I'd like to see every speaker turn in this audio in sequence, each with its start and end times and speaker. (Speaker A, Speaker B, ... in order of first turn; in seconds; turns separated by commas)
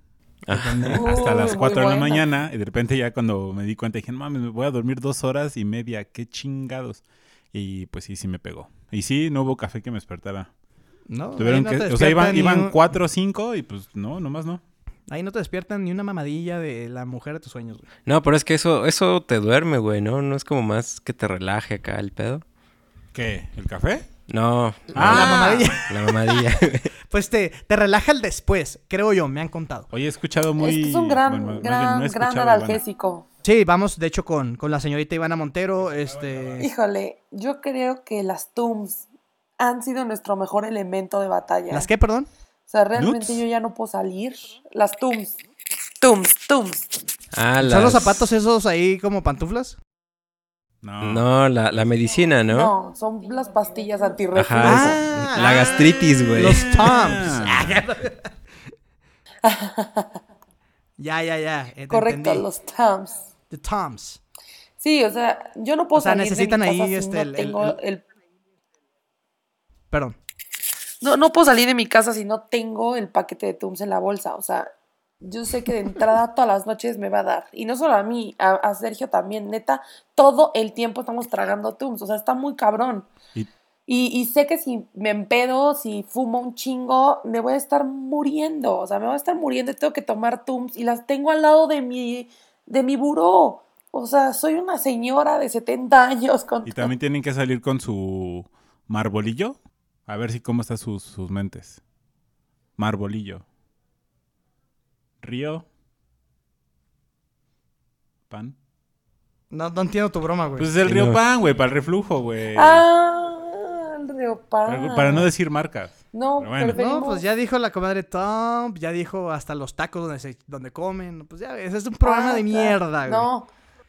Speaker A: 0.5-1.1, Speaker B: 0.5-1.2, Speaker C: 0.9-2.3, Speaker D: 1.0-7.0, Speaker D: 7.5-10.5, Speaker B: 11.1-12.8, Speaker D: 11.4-14.6, Speaker B: 15.1-17.9, Speaker A: 18.1-22.4, Speaker D: 23.1-24.1, Speaker A: 24.3-26.9, Speaker B: 24.9-26.4, Speaker D: 24.9-25.8, Speaker B: 27.1-29.9, Speaker D: 29.9-32.8, Speaker C: 30.6-33.3, Speaker B: 33.4-36.7, Speaker C: 36.6-39.0, Speaker C: 39.6-41.9, Speaker B: 41.7-42.3, Speaker C: 42.7-45.4, Speaker D: 43.0-43.4, Speaker C: 46.0-47.0, Speaker A: 47.3-48.3, Speaker B: 47.6-49.8, Speaker D: 50.8-51.3, Speaker A: 51.0-52.7, Speaker C: 52.5-55.0, Speaker A: 54.3-56.9, Speaker B: 54.6-55.8, Speaker D: 55.7-57.8, Speaker B: 56.3-58.3, Speaker C: 59.4-60.2, Speaker B: 61.0-62.5, Speaker C: 61.9-63.2, Speaker B: 63.5-64.2, Speaker C: 64.8-68.0, Speaker B: 66.0-67.8, Speaker B: 69.9-70.2, Speaker C: 71.0-83.1, Speaker C: 83.9-96.9, Speaker D: 96.7-101.8, Speaker D: 102.8-103.4, Speaker D: 105.2-105.7, Speaker D: 108.3-108.6, Speaker B: 109.5-110.7, Speaker D: 110.6-112.8, Speaker A: 110.8-111.2, Speaker C: 112.5-115.3, Speaker D: 114.7-116.8, Speaker C: 116.1-117.2, Speaker B: 116.7-123.3, Speaker C: 122.0-123.5